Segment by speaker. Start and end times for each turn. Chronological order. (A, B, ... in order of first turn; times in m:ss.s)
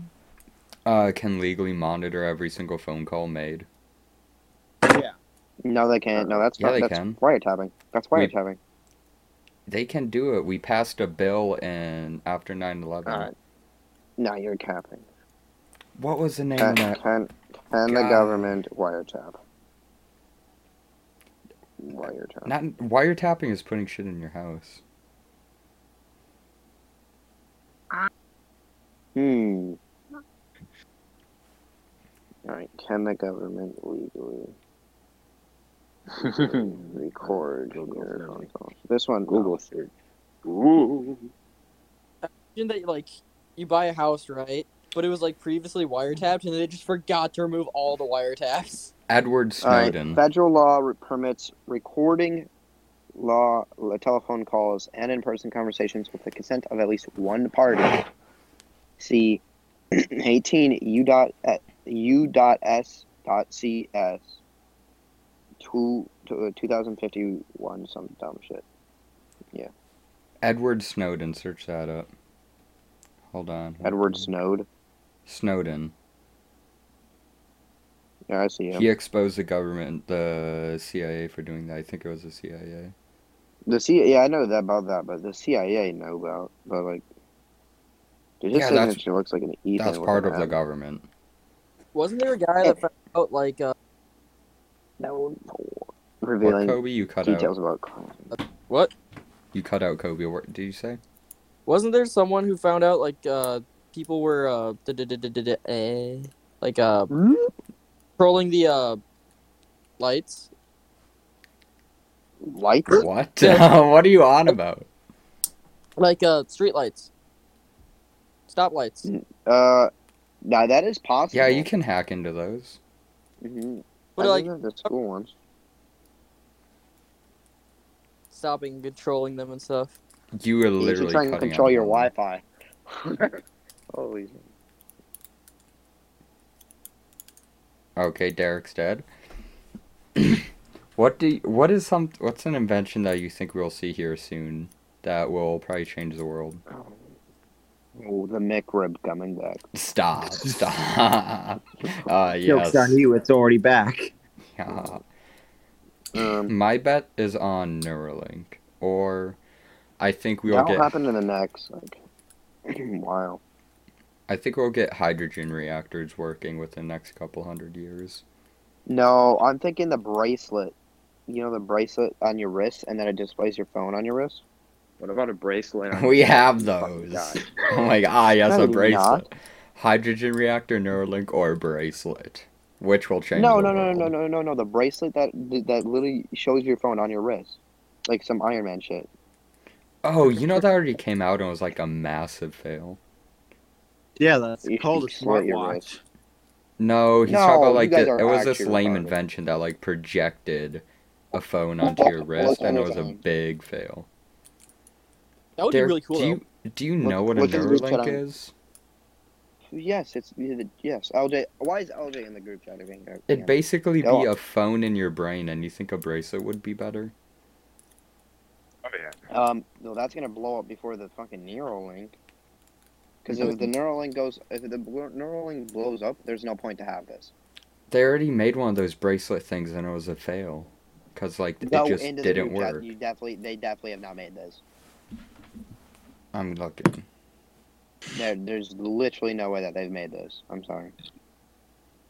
0:00.9-0:03.7 A
0:04.9-0:05.2 B
0:05.6-0:08.6 C
0:06.6-0:07.2 A
0:09.7-0:13.3 A
0:13.1-0:13.3 C
0:14.2-0:15.1 C
0:16.0-0:17.0 A
0:16.6-0:19.4 C
0:17.9-0:18.6 A
0:21.8-0:22.5 C
0:22.4-0:24.8 A
0:29.2-0:29.8 C
0:32.5-0:34.6 C
0:36.1-0:38.5 D
0:36.4-0:39.5 C
0:39.3-0:39.9 D
0:40.4-0:41.3 D
0:42.2-0:48.9 E
0:49.1-0:50.2 A
0:49.6-0:52.5 C
0:53.2-0:58.0 C
0:59.0-1:04.4 C
1:05.6-1:08.6 C
1:10.4-1:12.1 A
1:13.3-1:14.3 A
1:13.8-1:14.7 C
1:15.3-1:15.9 A
1:18.3-1:18.9 C
1:18.7-1:22.9 A
1:23.7-1:27.1 C
1:28.4-1:30.5 C
1:28.5-1:29.0 A
1:29.8-1:31.1 A
1:31.9-1:33.7 E
1:35.0-1:38.3 C
1:36.4-1:37.5 A
1:38.3-1:38.9 E
1:39.5-1:41.0 A
1:41.7-1:47.1 E
1:47.1-1:47.5 C
1:48.2-1:49.0 E
1:50.0-1:50.5 E
1:52.4-1:53.1 C
1:52.9-1:54.9 A
1:53.4-1:53.7 E
1:56.0-1:57.1 E
1:58.5-1:59.1 E
1:59.0-1:59.9 C
2:00.4-2:01.7 C
2:01.3-2:02.8 A
2:03.4-2:05.3 C
2:04.2-2:04.9 E
2:08.3-2:10.0 E
2:10.4-2:12.1 A
2:10.8-2:13.4 C
2:13.9-2:14.5 C
2:18.0-2:19.1 A
2:20.2-2:26.6 A
2:26.7-2:27.0 C
2:28.0-2:29.7 C
2:29.7-2:33.0 A
2:32.5-2:34.1 B
2:34.5-2:35.1 A
2:36.2-2:36.5 C
2:36.5-2:39.4 A
2:40.0-2:40.9 A
2:40.5-2:42.0 C
2:42.7-2:43.4 C
2:44.3-2:48.2 A
2:48.9-2:50.7 C
2:51.3-2:54.4 C
2:55.0-2:56.2 D
2:55.7-2:57.4 C
2:55.9-3:04.1 A
2:58.5-2:59.3 C
3:03.4-3:09.1 C
3:10.0-3:13.0 A
3:14.2-3:16.0 B
3:14.6-3:15.9 C
3:16.8-3:24.1 A
3:17.3-3:19.1 C
3:21.8-3:23.2 C
3:25.6-3:26.4 E
3:25.7-3:28.5 A
3:27.0-3:28.2 C
3:29.7-3:34.3 C
3:33.3-3:37.1 A
3:38.8-3:39.2 D
3:39.3-3:42.2 C
3:43.3-3:47.3 C
3:47.9-3:52.8 A
3:51.6-3:54.6 C
3:56.3-3:57.1 A
3:58.2-4:00.9 C